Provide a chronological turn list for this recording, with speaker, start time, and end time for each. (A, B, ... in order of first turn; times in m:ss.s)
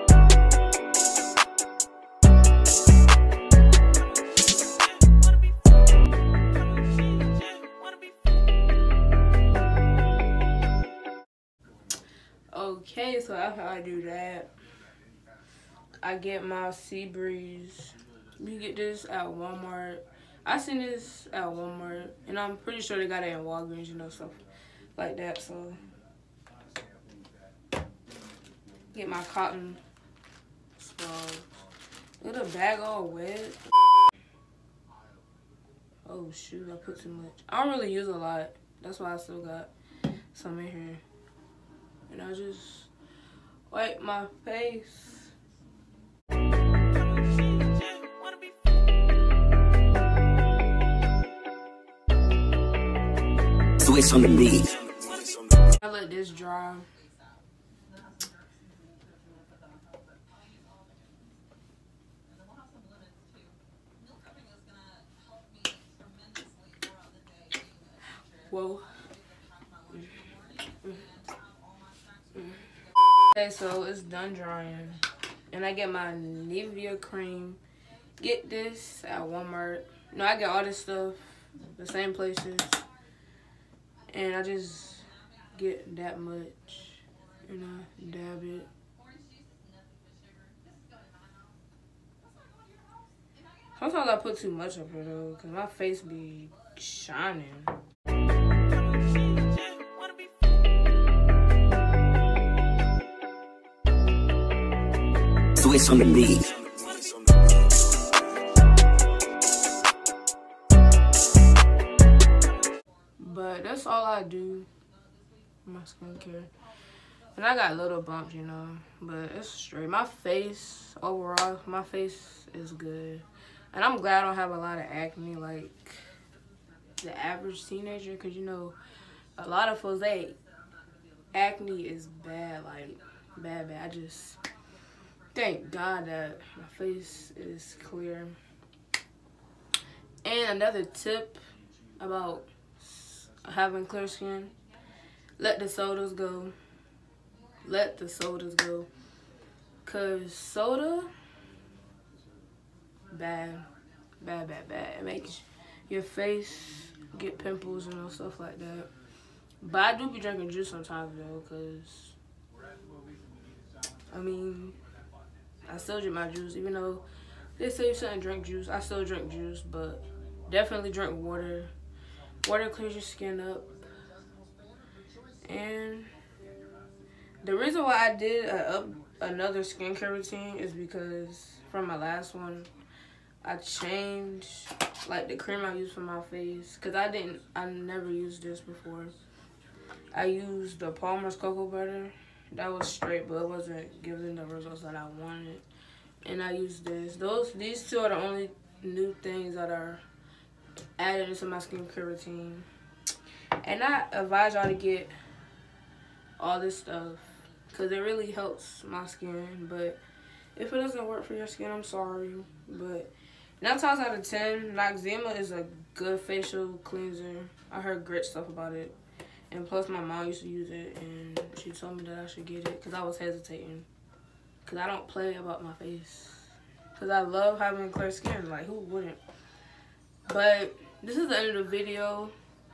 0:12.5-0:14.5 A
0:16.0-0:24.4 A
0:25.0-0:25.8 A
0:28.9-0:29.8 A
0:30.8-0:31.6 A
0:32.2-0:33.6 A
0:36.0-0:39.7 A
0:40.3-0:41.0 A
0:42.1-0:42.9 A
0:43.7-0:45.3 A
0:53.8-0:54.8 B
0:55.7-0:56.9 A
1:00.4-1:01.1 B
1:02.3-1:07.9 B
1:08.3-1:09.1 A
1:09.9-1:11.1 A
1:11.6-1:12.2 B
1:12.3-1:17.6 A
1:18.2-1:22.8 A
1:24.1-1:28.7 A
1:29.0-1:31.5 B
1:32.3-1:33.0 B
1:33.7-1:37.8 A
1:45.6-1:46.5 B
1:53.2-1:54.7 A
1:55.6-1:56.5 A
1:57.3-2:06.1 A
2:07.0-2:08.8 A
2:09.4-2:10.4 A
2:11.3-2:14.4 A
2:15.3-2:18.4 A
2:20.2-2:21.4 A
2:22.0-2:24.5 A
2:25.4-2:26.5 A
2:27.6-2:28.9 A
2:29.8-2:31.1 A
2:33.1-2:33.7 A
2:34.2-2:38.9 A
2:39.6-2:42.2 A
2:44.1-2:44.8 A
2:45.6-2:47.0 A
2:47.6-2:51.7 A
2:52.4-2:53.7 A
2:55.4-2:56.1 A
2:57.4-3:02.7 A
3:03.4-3:09.1 A
3:10.1-3:15.6 A
3:16.2-3:20.0 A
3:21.0-3:22.7 A
3:23.6-3:25.1 A
3:26.4-3:30.0 A
3:30.5-3:38.9 A
3:39.5-3:43.9 A
3:44.6-3:49.2 A
3:50.3-3:52.3 A